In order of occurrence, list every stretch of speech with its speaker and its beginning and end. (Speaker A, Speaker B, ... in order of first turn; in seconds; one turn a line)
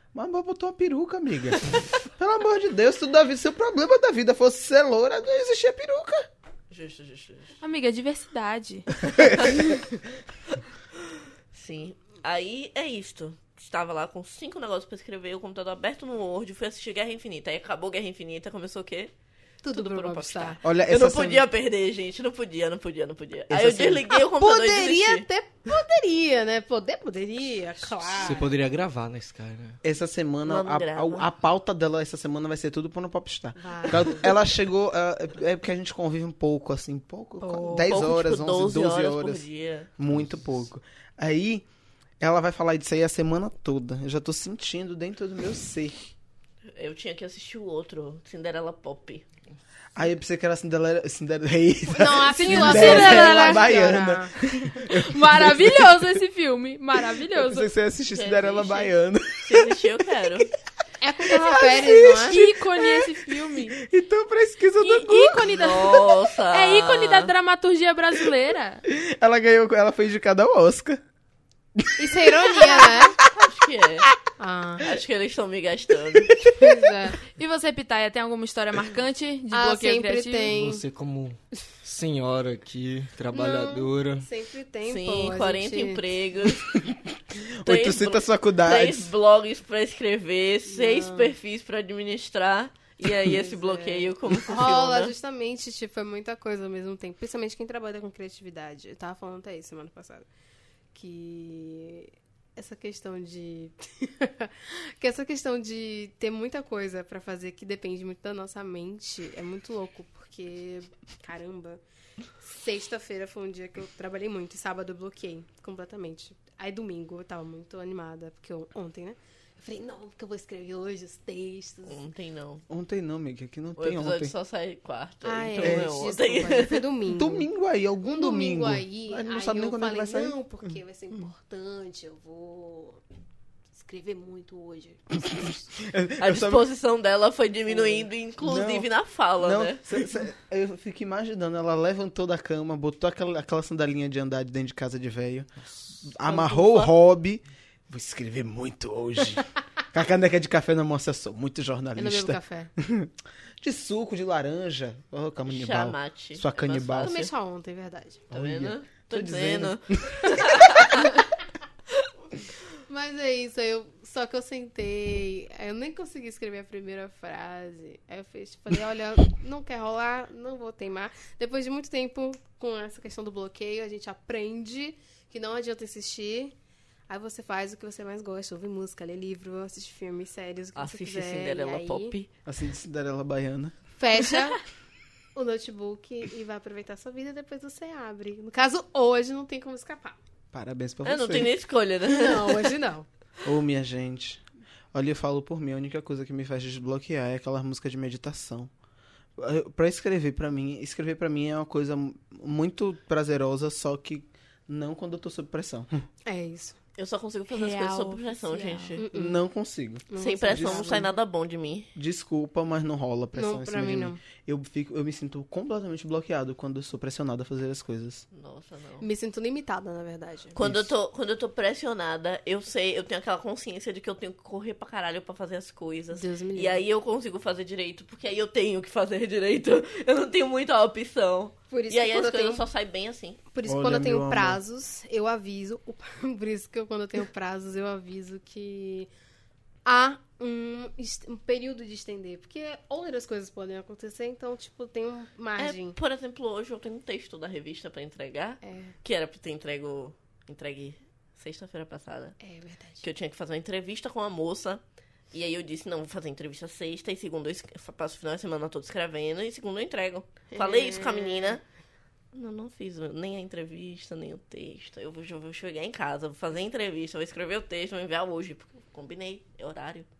Speaker A: 0.1-6.3
Speaker B: 6.7-7.6
Speaker C: 7.6-8.9
Speaker B: 9.3-9.6
Speaker B: 11.5-19.1
Speaker D: 19.6-20.6
Speaker B: 19.7-25.2
Speaker A: 20.6-21.5
Speaker A: 23.5-24.1
Speaker D: 24.1-28.5
Speaker E: 28.1-29.8
Speaker A: 29.8-39.5
Speaker B: 30.4-31.3
Speaker D: 33.6-34.3
Speaker D: 37.4-37.9
Speaker B: 37.8-39.9
Speaker A: 40.0-41.6
Speaker E: 40.1-40.6
Speaker A: 42.2-46.0
Speaker B: 46.7-49.2
Speaker A: 50.0-56.1
Speaker D: 51.9-54.3
Speaker C: 52.3-54.0
Speaker C: 54.6-57.7
Speaker A: 57.3-59.9
Speaker B: 58.1-60.5
Speaker D: 61.0-62.4
Speaker A: 61.2-65.7
Speaker C: 62.3-63.8
Speaker C: 64.8-68.8
Speaker B: 65.4-67.3
Speaker A: 68.9-71.0
Speaker A: 71.8-73.3
Speaker D: 72.0-73.2
Speaker B: 73.3-74.1
Speaker D: 74.4-74.9
Speaker B: 74.8-76.5
Speaker D: 76.5-77.2
Speaker C: 77.3-80.5
Speaker D: 79.5-80.8
Speaker E: 80.5-84.3
Speaker D: 83.3-86.0
Speaker B: 84.8-86.7
Speaker A: 86.5-89.1
Speaker B: 87.6-95.1
Speaker D: 90.7-91.3
Speaker D: 93.3-100.3
Speaker D: 100.9-111.8
Speaker D: 112.4-122.0
Speaker B: 121.8-122.6
Speaker A: 122.7-124.3
Speaker B: 123.8-126.9
Speaker D: 125.2-127.5
Speaker A: 125.6-125.9
Speaker A: 127.2-131.2
Speaker D: 128.0-133.0
Speaker D: 133.7-135.6
Speaker A: 135.3-136.7
Speaker B: 136.2-140.0
Speaker A: 138.4-145.5
Speaker E: 145.7-146.0
Speaker A: 146.0-157.2
Speaker B: 146.2-146.9
Speaker D: 151.9-152.7
Speaker B: 155.4-157.3
Speaker D: 157.0-158.3
Speaker A: 158.3-160.7
Speaker B: 158.3-161.1
Speaker D: 162.9-176.5
Speaker D: 177.1-182.1
Speaker B: 180.7-182.3
Speaker A: 182.4-183.8
Speaker D: 184.0-184.6
Speaker D: 185.3-190.2
Speaker A: 190.5-191.5
Speaker B: 191.0-192.7
Speaker D: 192.1-193.1
Speaker A: 193.4-194.4
Speaker A: 194.9-198.7
Speaker A: 199.4-206.0
Speaker D: 206.2-206.8
Speaker B: 207.0-209.1
Speaker C: 207.5-209.0
Speaker D: 209.0-209.4
Speaker A: 209.1-211.1
Speaker D: 210.1-211.1
Speaker B: 210.2-211.9
Speaker A: 211.9-218.2
Speaker D: 213.3-214.2
Speaker B: 218.3-219.1
Speaker D: 219.0-220.6
Speaker B: 220.5-233.4
Speaker D: 226.1-226.8
Speaker D: 231.7-232.6
Speaker D: 233.5-239.1
Speaker A: 233.7-234.6
Speaker D: 239.8-245.9
Speaker B: 245.6-252.4
Speaker D: 248.6-248.9
Speaker D: 252.4-253.0
Speaker B: 253.0-254.8
Speaker B: 255.3-261.6
Speaker D: 260.5-261.6
Speaker B: 262.3-270.1